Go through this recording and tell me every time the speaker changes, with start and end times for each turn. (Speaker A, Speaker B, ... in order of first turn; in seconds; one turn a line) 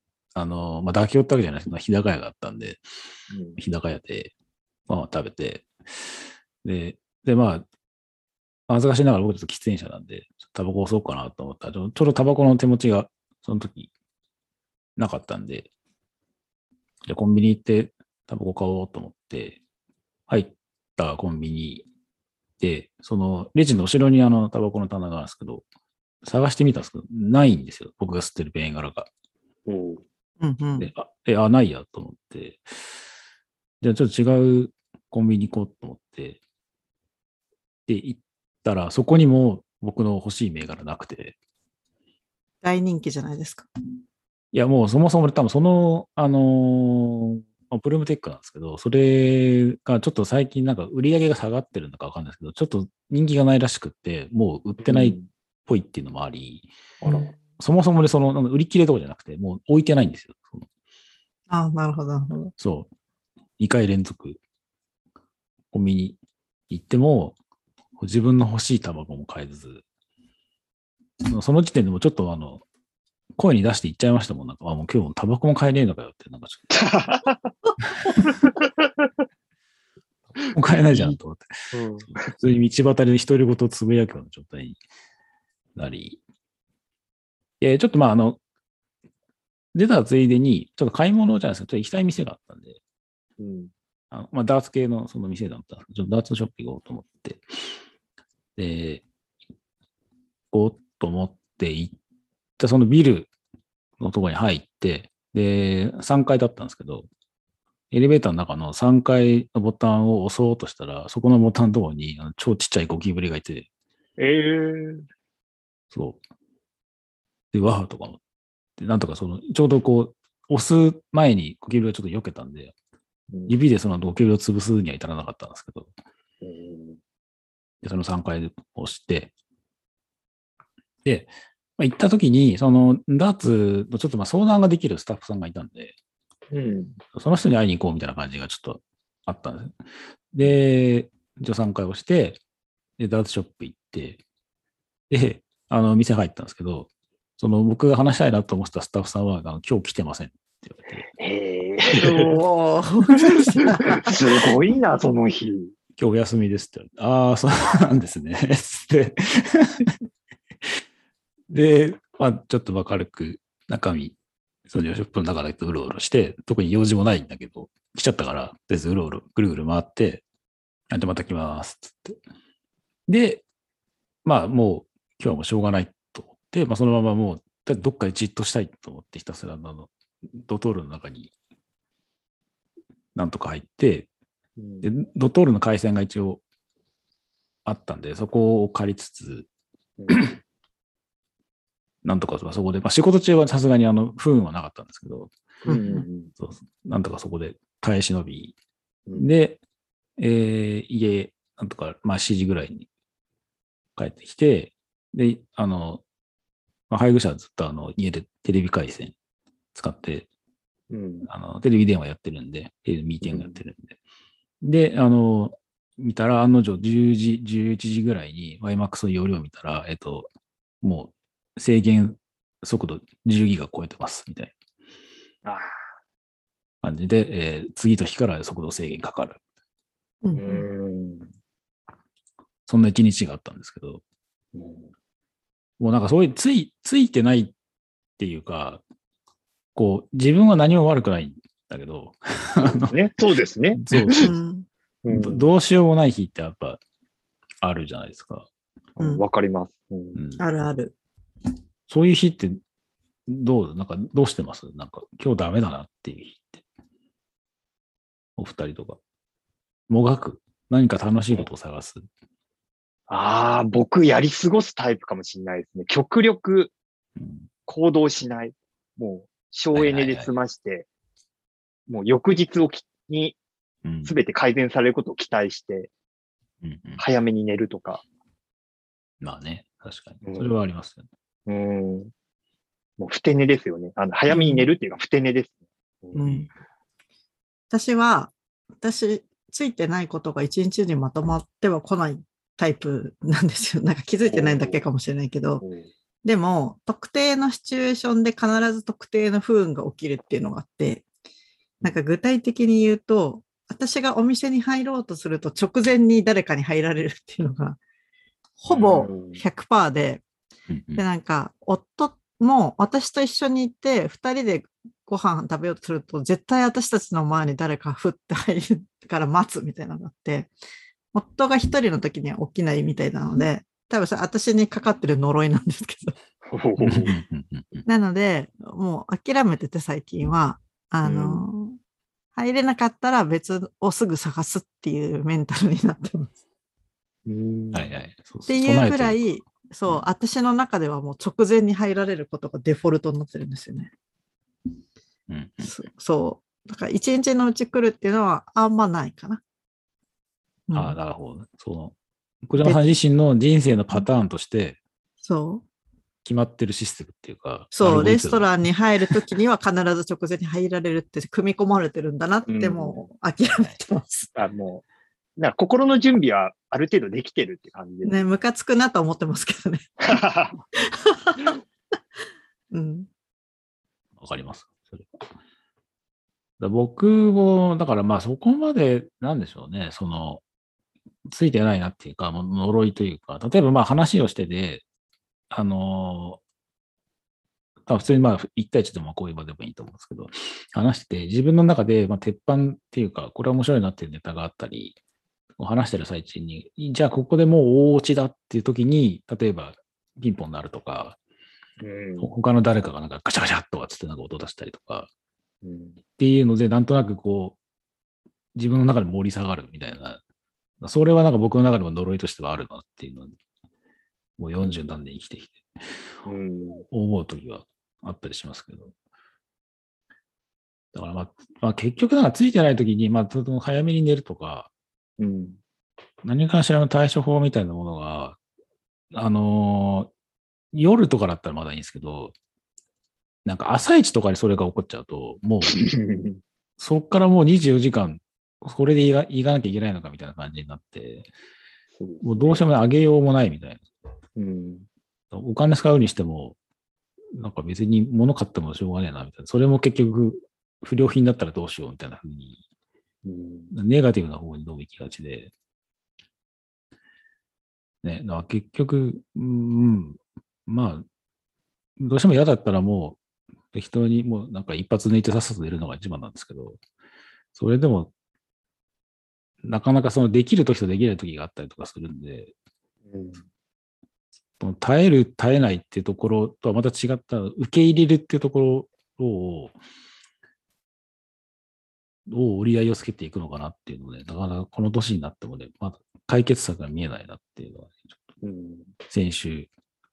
Speaker A: 0.3-2.8
Speaker B: 3.3-3.6
Speaker A: 3.6-4.3
Speaker A: 4.9-5.8
Speaker A: 6.6-7.7
Speaker A: 8.7-13.9
Speaker A: 15.0-15.7
Speaker A: 17.0-19.6
Speaker A: 20.3-21.9
Speaker A: 22.6-25.6
Speaker A: 26.2-29.1
Speaker B: 29.7-30.0
Speaker C: 30.4-30.9
Speaker A: 30.8-32.7
Speaker A: 33.8-36.4
Speaker A: 37.9-41.4
Speaker C: 42.6-43.7
Speaker A: 44.5-56.7
Speaker B: 54.8-55.3
Speaker B: 57.0-57.3
Speaker A: 57.6-60.6
Speaker C: 61.5-62.5
Speaker A: 62.6-62.9
Speaker A: 63.6-64.4
Speaker A: 65.7-66.2
Speaker A: 66.7-67.4
Speaker A: 68.0-69.8
Speaker A: 71.2-72.6
Speaker A: 73.4-76.8
Speaker B: 76.7-77.5
Speaker B: 78.4-78.7
Speaker A: 80.4-81.5
Speaker B: 80.8-81.2
Speaker B: 81.7-82.3
Speaker A: 82.2-84.8
Speaker A: 85.8-86.2
Speaker A: 87.6-88.4
Speaker A: 89.7-92.8
Speaker B: 93.4-93.7
Speaker A: 94.1-97.4
Speaker A: 98.6-99.0
Speaker A: 100.5-102.0
Speaker A: 102.6-103.3
Speaker A: 104.0-107.1
Speaker A: 107.9-113.7
Speaker B: 114.2-115.0
Speaker A: 115.9-116.2
Speaker A: 117.5-118.2
Speaker A: 118.8-122.7
Speaker B: 123.3-123.6
Speaker A: 123.5-125.9
Speaker B: 126.4-127.0
Speaker A: 127.8-129.3
Speaker A: 131.0-135.9
Speaker B: 136.5-137.0
Speaker A: 137.1-139.8
Speaker A: 140.3-142.4
Speaker A: 143.0-144.2
Speaker A: 145.1-151.0
Speaker B: 151.2-152.4
Speaker C: 151.9-154.1
Speaker B: 153.8-155.7
Speaker A: 156.0-159.9
Speaker A: 161.5-164.2
Speaker A: 164.7-170.2
Speaker A: 170.9-172.2
Speaker A: 173.1-173.4
Speaker A: 174.2-181.3
Speaker A: 183.1-184.1
Speaker B: 184.6-184.9
Speaker A: 184.8-186.4
Speaker A: 187.7-189.5
Speaker A: 190.1-190.4
Speaker A: 192.0-195.3
Speaker C: 195.6-196.0
Speaker B: 195.7-196.3
Speaker A: 196.4-198.5
Speaker A: 199.2-199.6
Speaker A: 200.2-202.9
Speaker A: 204.0-206.0
Speaker A: 206.9-209.2
Speaker A: 209.7-210.3
Speaker B: 210.9-211.3
Speaker A: 211.2-214.0
Speaker B: 213.2-213.6
Speaker A: 214.6-220.3
Speaker A: 220.8-224.5
Speaker A: 226.8-229.4
Speaker C: 230.2-230.7
Speaker B: 230.3-231.3
Speaker A: 232.7-234.0
Speaker B: 234.5-234.9
Speaker A: 235.8-237.5
Speaker A: 238.2-238.8
Speaker A: 239.7-242.9
Speaker B: 242.6-244.3
Speaker A: 243.8-244.3
Speaker C: 244.2-244.7
Speaker B: 245.0-245.5
Speaker A: 245.1-246.8
Speaker A: 247.6-248.5
Speaker B: 249.0-250.2
Speaker A: 250.1-250.5
Speaker C: 250.4-250.9
Speaker A: 251.9-252.6
Speaker A: 253.3-256.6
Speaker A: 258.4-259.0
Speaker A: 259.9-262.1
Speaker B: 263.1-266.7
Speaker A: 267.2-267.5
Speaker B: 267.6-270.9
Speaker A: 269.7-270.3
Speaker B: 271.9-273.4
Speaker A: 273.8-274.1
Speaker B: 274.0-275.9
Speaker A: 276.6-277.0
Speaker B: 277.0-278.0
Speaker A: 279.2-281.1
Speaker B: 280.2-280.5
Speaker B: 281.5-282.1
Speaker B: 283.0-286.4
Speaker C: 284.3-284.7
Speaker C: 286.1-286.5
Speaker C: 287.7-295.6
Speaker B: 294.2-294.8
Speaker B: 295.6-295.9
Speaker C: 296.2-301.1
Speaker C: 301.8-307.8
Speaker C: 308.6-310.2
Speaker B: 308.7-309.4
Speaker A: 310.7-311.0
Speaker C: 310.9-320.5
Speaker C: 321.1-326.1
Speaker B: 326.5-327.1
Speaker A: 326.8-327.8
Speaker C: 327.8-331.8
Speaker B: 331.0-331.4
Speaker C: 332.3-336.3
Speaker B: 337.2-337.9
Speaker A: 337.7-339.3
Speaker C: 338.5-343.9
Speaker A: 345.3-345.7
Speaker C: 345.6-349.4
Speaker C: 350.7-350.9
Speaker A: 350.7-354.8
Speaker C: 352.6-353.0
Speaker C: 355.2-355.6
Speaker A: 356.2-358.5
Speaker C: 357.7-364.3
Speaker B: 362.5-363.1
Speaker B: 364.3-364.8
Speaker B: 365.4-368.2
Speaker C: 368.0-369.9
Speaker B: 370.1-370.6
Speaker C: 370.9-371.5
Speaker C: 372.7-373.1
Speaker A: 374.2-375.1
Speaker A: 376.6-380.4
Speaker A: 381.3-384.8
Speaker A: 385.5-386.4
Speaker A: 387.9-395.0
Speaker A: 395.6-401.2
Speaker B: 401.8-402.3
Speaker A: 402.2-405.1
Speaker B: 405.6-406.0
Speaker A: 406.2-407.6
Speaker A: 408.6-410.2
Speaker A: 410.8-413.3
Speaker A: 414.4-415.7
Speaker B: 416.2-416.8
Speaker A: 416.9-418.9
Speaker A: 420.9-424.7
Speaker B: 425.2-425.6
Speaker A: 426.2-428.4
Speaker A: 429.1-430.1
Speaker A: 430.7-432.3
Speaker A: 433.4-435.8
Speaker B: 435.7-436.4
Speaker A: 436.8-441.3
Speaker B: 441.9-442.7
Speaker A: 442.2-443.9
Speaker B: 444.4-444.9
Speaker A: 445.3-446.6
Speaker A: 447.3-452.6
Speaker B: 453.2-453.7
Speaker A: 453.7-455.5
Speaker A: 458.0-461.0
Speaker A: 462.0-463.2
Speaker A: 463.7-466.8
Speaker A: 467.6-468.1
Speaker A: 469.6-472.5
Speaker B: 473.1-473.4
Speaker A: 474.6-479.8
Speaker A: 482.3-488.2
Speaker B: 488.4-488.9
Speaker A: 489.1-489.7